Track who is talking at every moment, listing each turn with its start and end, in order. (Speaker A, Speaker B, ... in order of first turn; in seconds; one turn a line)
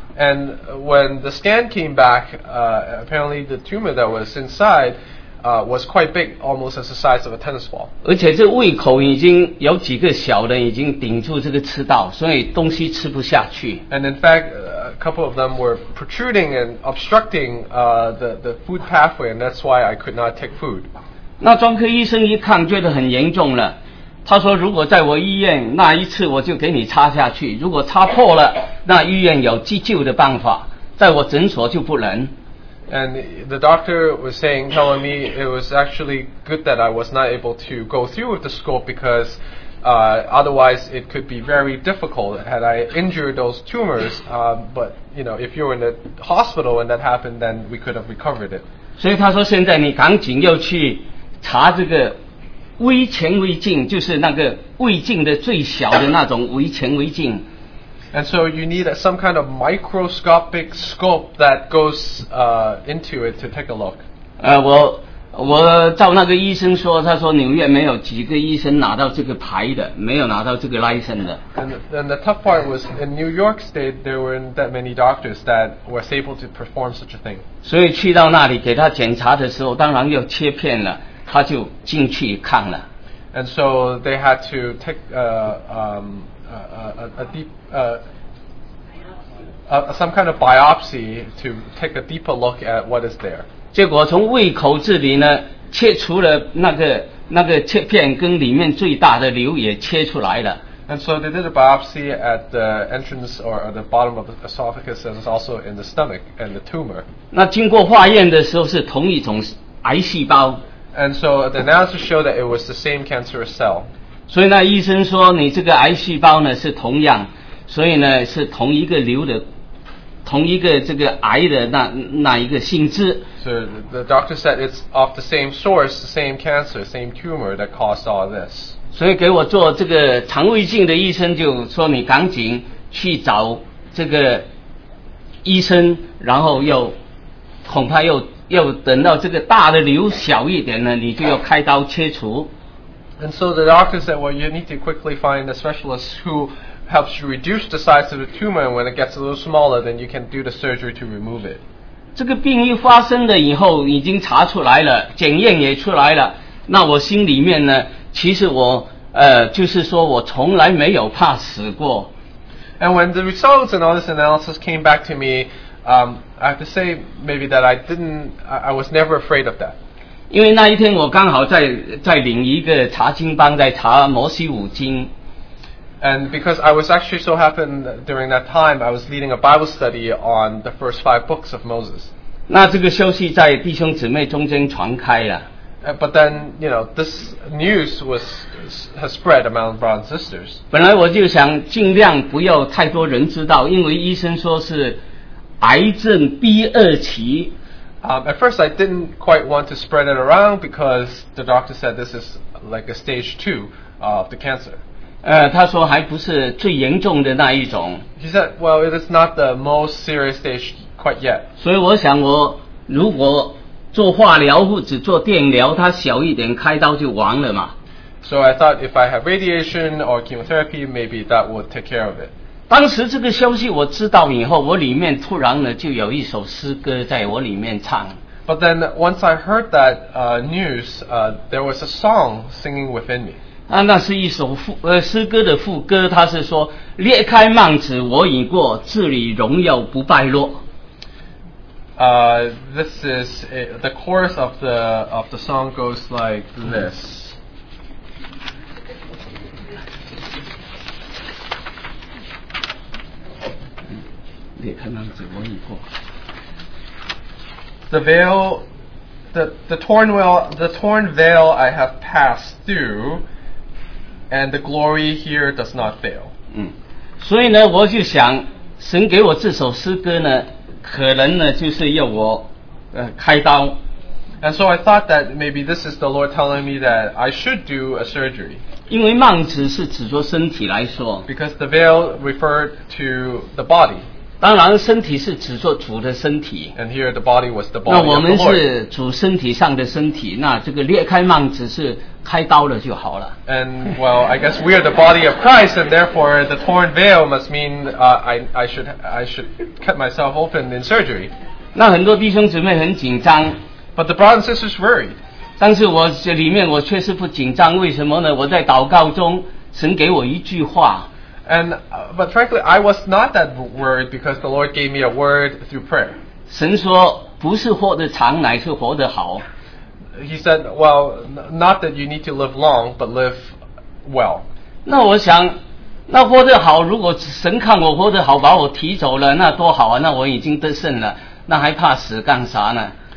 Speaker A: 0.1-7.9
Speaker B: 8.0-13.8
Speaker A: 13.9-20.9
Speaker B: 21.4-32.3
Speaker A: 32.9-48.6
Speaker B: 49.0-52.2
Speaker B: 52.8-57.5
Speaker A: 58.1-64.0
Speaker B: 64.4-71.4
Speaker A: 71.5-77.4
Speaker B: 77.6-82.8
Speaker A: 83.3-88.0
Speaker A: 89.7-93.5
Speaker B: 93.7-100.6
Speaker A: 100.9-107.0
Speaker B: 107.3-110.6
Speaker A: 110.9-113.9
Speaker B: 114.3-119.4
Speaker B: 120.2-123.2
Speaker A: 123.4-128.7
Speaker B: 128.9-134.4
Speaker B: 135.4-136.9
Speaker B: 137.6-142.5
Speaker A: 143.2-151.6
Speaker B: 152.1-162.1
Speaker A: 162.8-169.7
Speaker B: 170.3-175.1
Speaker A: 176.0-182.1
Speaker B: 182.5-185.5
Speaker A: 185.8-190.6
Speaker B: 190.7-195.0
Speaker B: 195.6-197.5
Speaker A: 198.0-204.8
Speaker B: 205.2-208.0
Speaker A: 208.2-211.5
Speaker B: 211.6-217.7
Speaker A: 218.2-222.3
Speaker B: 222.7-228.2
Speaker A: 228.4-233.4
Speaker B: 233.7-240.6
Speaker A: 242.0-247.3
Speaker B: 254.6-255.8
Speaker A: 257.9-258.6
Speaker A: 259.3-263.2
Speaker A: 264.3-266.3
Speaker B: 266.5-273.8
Speaker A: 274.4-278.6
Speaker B: 278.9-281.3
Speaker A: 281.3-284.0
Speaker B: 284.4-286.7
Speaker A: 286.8-288.6
Speaker B: 287.9-293.3
Speaker A: 293.4-301.3
Speaker B: 301.7-303.6
Speaker A: 303.9-305.1
Speaker B: 305.6-311.1
Speaker A: 311.4-316.2
Speaker B: 316.5-319.4
Speaker A: 320.1-324.4
Speaker B: 324.9-325.6
Speaker B: 326.1-332.9